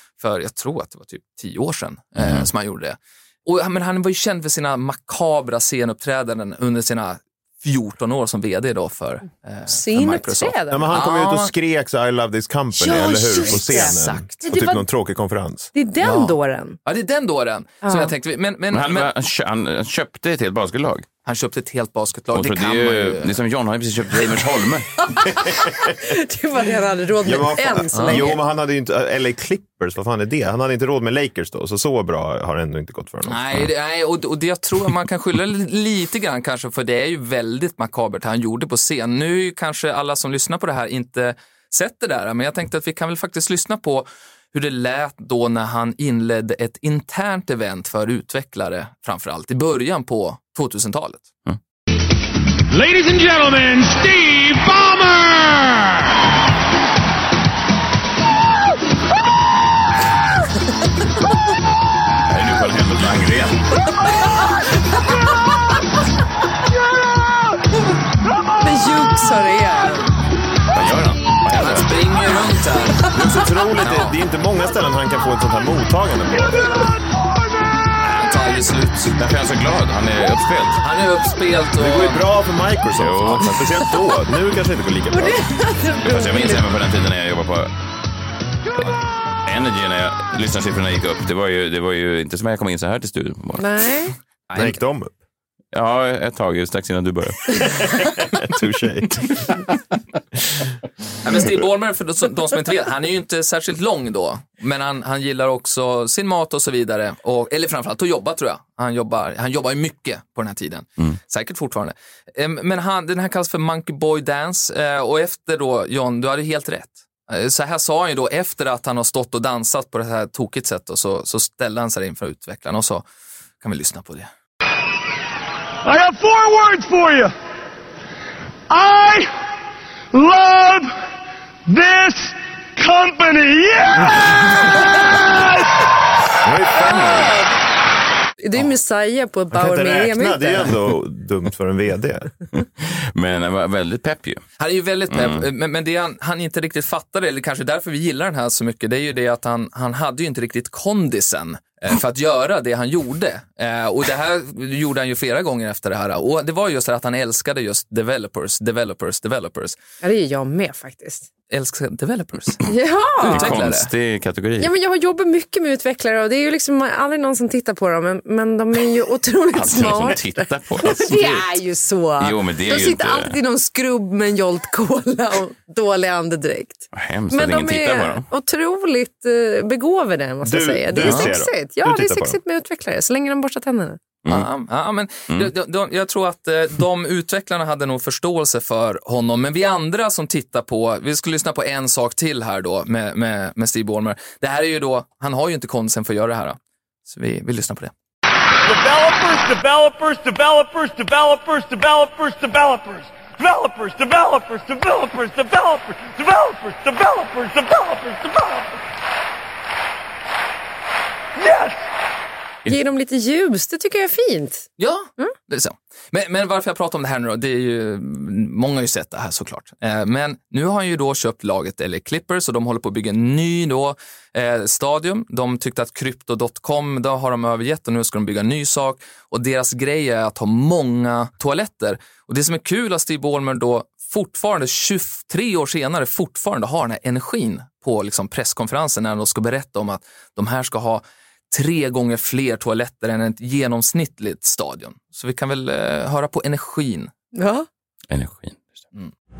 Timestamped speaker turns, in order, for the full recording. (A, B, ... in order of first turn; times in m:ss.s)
0:00.2-0:11.5 A
0:02.2-0:02.5 B
0:09.7-0:10.9 C
0:10.7-0:15.7 D
0:12.8-0:14.8 C
0:13.5-0:14.4 A
0:15.7-0:16.8 C
0:16.0-0:19.1 A
0:17.8-0:18.1 C
0:18.7-0:21.0 B
0:21.2-0:23.3 A
0:22.3-0:24.9 B
0:25.0-0:28.4 C
0:25.3-0:26.0 D
0:27.2-0:33.4 D
0:27.9-0:28.2 A
0:33.2-0:51.3 A
0:52.7-0:56.1 E
1:02.3-1:03.8 B
1:04.1-1:05.3 C
1:08.6-1:10.1 C
1:10.7-1:12.0 B
1:11.5-1:13.2 A
1:13.0-1:13.3 C
1:13.1-1:16.9 D
1:13.8-1:14.1 A
1:18.0-1:19.2 A
1:19.2-1:20.8 B
1:20.8-1:22.2 A
1:21.8-1:25.4 D
1:22.9-1:23.8 B
1:25.1-1:26.6 C
1:26.0-1:27.7 B
1:29.4-1:33.9 B
1:33.6-1:34.1 C
1:34.5-1:34.8 A
1:34.5-1:35.1 D
1:35.7-1:37.8 B
1:37.8-1:39.6 D
1:41.2-2:03.0 A
2:03.6-2:04.3 A
2:05.8-2:07.3 E
2:08.7-2:09.3 E
2:10.1-2:10.9 E
2:11.7-2:14.8 E
2:16.4-2:17.4 D
2:16.7-2:17.5 C
2:18.4-2:20.8 C
2:19.5-2:22.3 D
2:22.5-2:24.4 B
2:24.6-2:39.8 A
2:25.1-2:25.5 B
2:40.0-2:41.3 C
2:41.5-2:42.6 A
2:42.6-2:43.6 C
2:43.2-2:44.7 B
2:43.2-2:43.9 A
2:44.6-3:04.0 C
2:49.5-2:51.5 B
2:52.2-2:53.4 B
2:56.9-2:58.2 B
3:00.4-3:02.4 D
3:01.0-3:01.3 A
3:04.3-3:17.9 A
3:18.6-3:28.8 E
3:31.4-3:31.8 E
3:32.6-3:35.3 C
3:34.8-4:07.1 A
4:07.3-4:07.7 C
4:08.1-4:08.8 B